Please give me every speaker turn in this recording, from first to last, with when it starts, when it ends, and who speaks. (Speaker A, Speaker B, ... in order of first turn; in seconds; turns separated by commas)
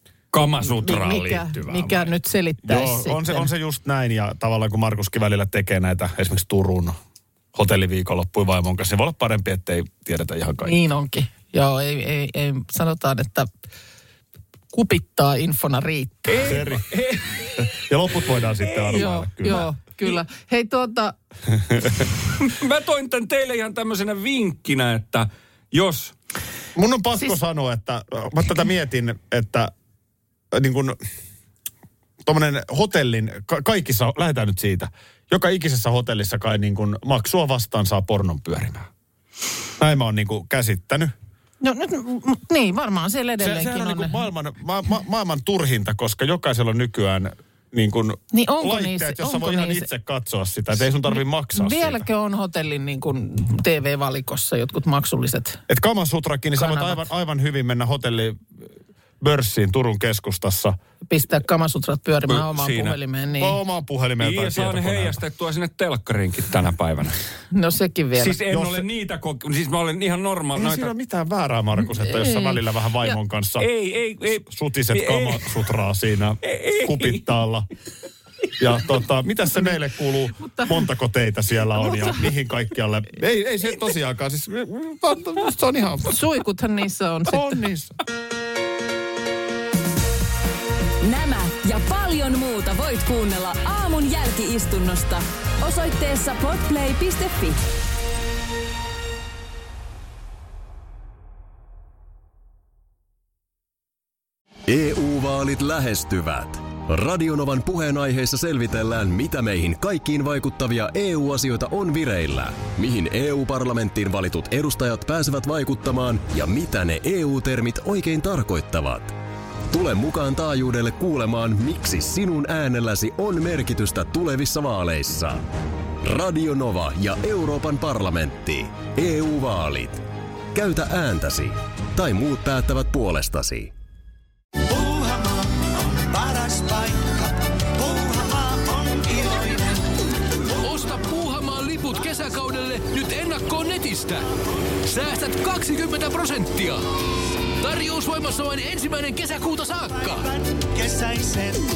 Speaker A: 0.3-2.1, Speaker B: 0.6-3.5, Speaker C: 2.6-6.9, Speaker C: 7.5-10.7, Speaker B: 10.6-13.5, Speaker B: 14.7-16.4, Speaker A: 16.3-17.8, Speaker C: 16.4-16.9, Speaker C: 17.6-19.7, Speaker A: 18.6-20.1, Speaker B: 18.9-21.1, Speaker A: 22.1-26.1, Speaker C: 26.8-29.7, Speaker C: 30.5-31.0, Speaker C: 32.2-38.9, Speaker C: 39.8-41.1, Speaker B: 41.6-44.2, Speaker C: 43.4-52.0, Speaker B: 48.3-49.9, Speaker B: 51.1-55.6, Speaker C: 55.7-58.4, Speaker B: 56.5-57.1, Speaker C: 59.2-60.7, Speaker B: 61.0-63.6, Speaker A: 62.3-63.0, Speaker C: 63.4-65.2, Speaker A: 64.2-67.1, Speaker B: 67.5-68.4, Speaker A: 68.2-70.9, Speaker C: 68.5-68.9, Speaker C: 70.5-73.7, Speaker B: 71.9-72.6, Speaker A: 73.1-75.7, Speaker C: 74.4-77.7, Speaker A: 76.4-77.3, Speaker C: 78.6-86.1, Speaker B: 80.4-80.7, Speaker B: 81.8-82.3, Speaker B: 86.1-87.6, Speaker C: 87.3-87.9, Speaker D: 91.0-97.6, Speaker E: 104.7-119.2, Speaker E: 119.7-125.5, Speaker E: 126.0-133.7, Speaker F: 134.9-135.2, Speaker F: 136.3-137.1, Speaker F: 137.9-139.7, Speaker G: 140.5-144.3, Speaker G: 144.8-146.8, Speaker G: 147.6-150.4, Speaker F: 150.9-151.6